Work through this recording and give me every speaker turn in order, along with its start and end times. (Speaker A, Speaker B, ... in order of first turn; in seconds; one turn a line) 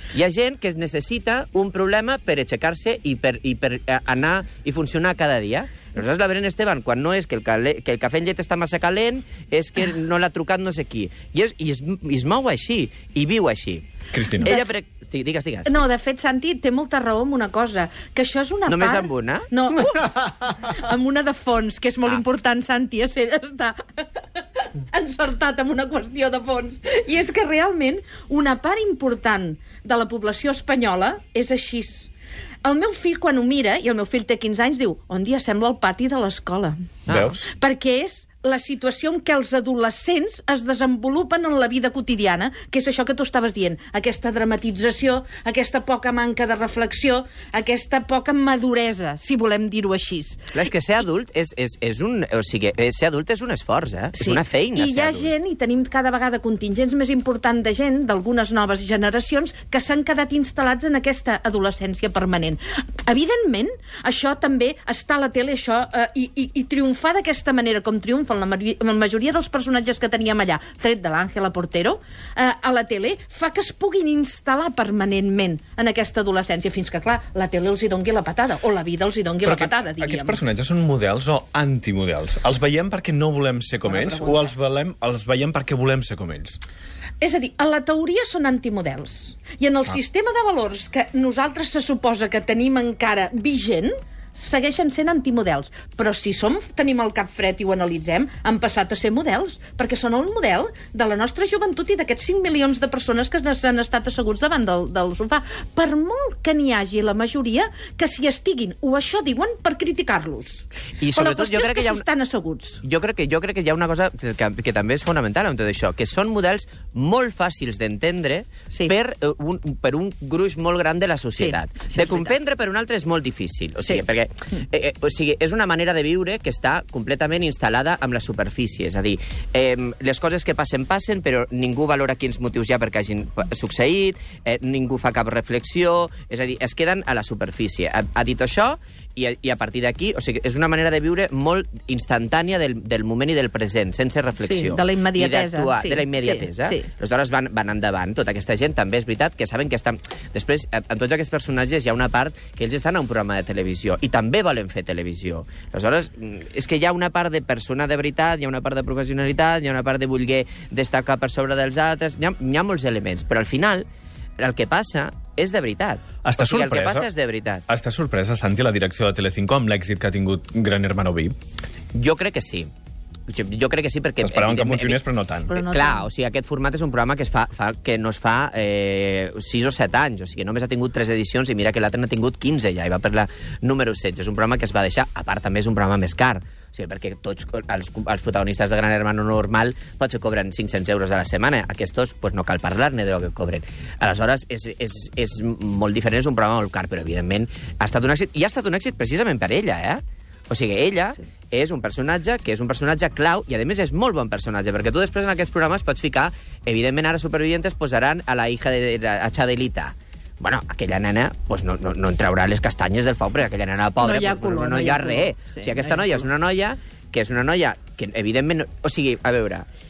Speaker A: 0.1-15.7
Speaker B: 14.1-14.6
Speaker C: 15.6-32.1
Speaker A: 18.7-19.5
Speaker C: 32.6-36.7
Speaker A: 37.1-37.3
Speaker B: 37.1-37.5
Speaker C: 37.4-50.5
Speaker A: 50.5-55.3
Speaker C: 54.2-80.4
Speaker B: 79.4-86.6
Speaker C: 83.8-84.5
Speaker C: 87.2-112.8
Speaker A: 111.0-112.0
Speaker A: 112.8-163.8
Speaker C: 121.3-122.3
Speaker C: 144.4-146.9
Speaker A: 164.4-167.6
Speaker B: 166.2-167.1
Speaker B: 167.7-171.3
Speaker A: 171.9-172.7
Speaker A: 173.3-175.0
Speaker B: 174.2-175.5
Speaker C: 175.5-176.1
Speaker A: 175.5-219.7
Speaker C: 214.0-216.2